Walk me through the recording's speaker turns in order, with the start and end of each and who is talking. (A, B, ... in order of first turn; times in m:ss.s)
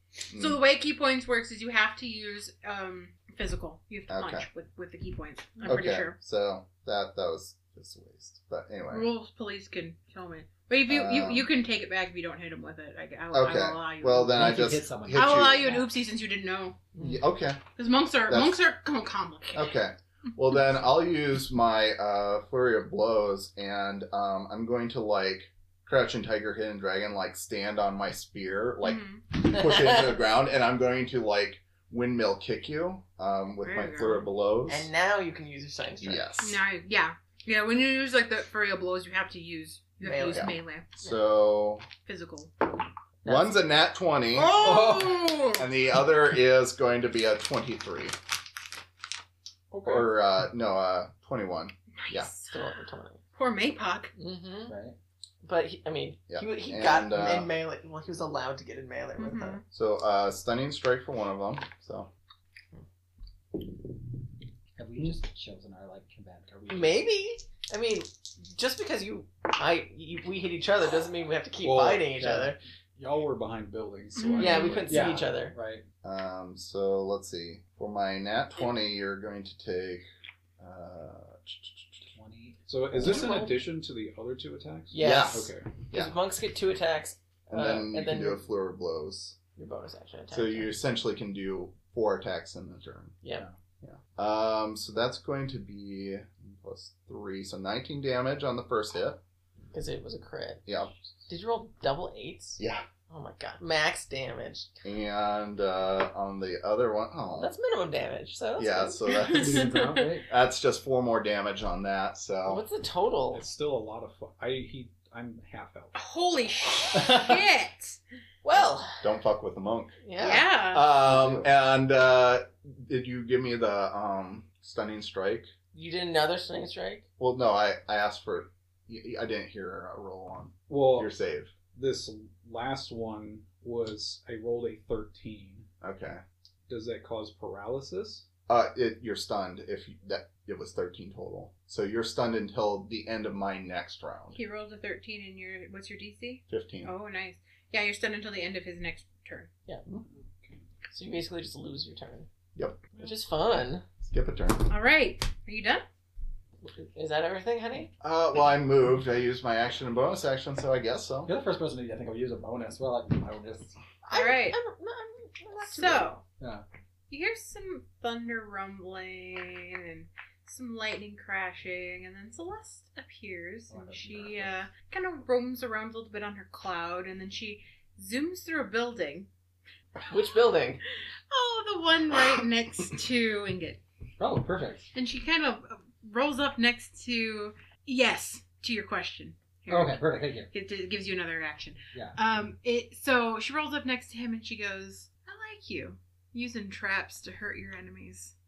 0:00.3-0:06.2 A
0:00.3-0:00.6 B
0:04.1-0:04.5 B
0:05.6-0:09.1 B
0:08.9-0:16.8 A
0:10.9-0:11.5 B
0:13.3-0:15.8 B
0:14.2-0:15.9 C
0:16.9-0:17.2 D
0:17.0-0:17.6 B
0:17.8-0:19.8 A
0:18.3-0:18.6 B
0:19.5-0:34.9 B
0:28.8-0:29.2 A
0:29.5-0:30.1 D
0:33.6-0:34.2 A
0:34.7-0:36.2 D
0:36.0-0:36.6 B
0:36.4-0:40.8 A
0:40.0-0:40.4 D
0:40.3-0:41.8 B
0:42.0-0:42.5 A
0:43.2-0:43.6 D
0:43.2-0:48.2 B
0:44.3-0:45.7 A
0:44.6-0:45.2 C
0:49.7-0:50.1 E
0:49.8-0:52.3 B
0:51.9-0:52.8 A
0:52.5-0:53.2 D
0:53.3-0:54.1 A
0:54.2-0:54.7 D
0:54.7-0:55.0 C
0:55.4-0:59.6 D
0:56.3-0:57.5 B
0:59.2-0:59.6 A
0:59.7-1:02.1 B
1:04.8-1:07.1 C
1:06.7-1:12.6 D
1:11.6-1:12.2 E
1:12.2-1:12.5 C
1:13.0-1:15.2 E
1:14.1-1:14.9 A
1:14.4-1:15.5 D
1:14.9-1:15.8 C
1:16.0-1:20.0 B
1:20.6-1:22.0 B
1:22.1-1:22.6 C
1:22.7-1:25.9 E
1:23.0-1:23.4 B
1:23.0-1:23.6 D
1:24.9-1:28.4 D
1:25.0-1:26.1 B
1:27.5-1:29.4 B
1:29.6-1:30.7 D
1:30.3-1:33.2 B
1:33.8-1:39.2 B
1:39.7-1:40.6 D
1:40.6-1:40.9 B
1:41.3-1:44.7 D
1:42.6-1:42.8 B
1:44.8-1:47.6 B
1:47.4-1:49.0 D
1:48.6-1:52.6 B
1:49.1-1:50.1 A
1:49.3-1:50.3 C
1:52.5-1:53.4 D
1:53.3-1:56.0 E
1:56.0-1:58.0 A
1:56.9-1:57.3 C
1:58.4-1:59.0 D
1:59.0-2:05.5 B
2:00.0-2:00.5 D
2:00.2-2:00.8 A
2:01.2-2:01.4 C
2:05.7-2:07.0 D
2:07.2-2:11.5 B
2:10.7-2:11.1 E
2:11.6-2:15.7 E
2:15.8-2:16.2 B
2:16.7-2:18.2 E
2:18.5-2:24.4 B
2:24.3-2:29.5 A
2:26.5-2:26.9 B
2:30.9-2:32.3 D
2:32.5-2:32.8 B
2:32.9-2:33.8 D
2:34.0-2:34.7 B
2:34.7-2:35.8 A
2:36.6-2:37.9 D
2:38.0-2:41.3 B
2:41.2-2:43.7 C
2:44.0-2:46.1 D
2:44.1-2:44.6 A
2:45.6-2:46.2 A
2:46.4-2:46.6 C
2:47.1-2:59.3 A
2:53.7-2:54.6 C
3:00.1-3:00.8 D
3:01.3-3:03.8 A
3:04.2-3:04.9 C
3:04.9-3:18.3 A
3:09.7-3:10.5 C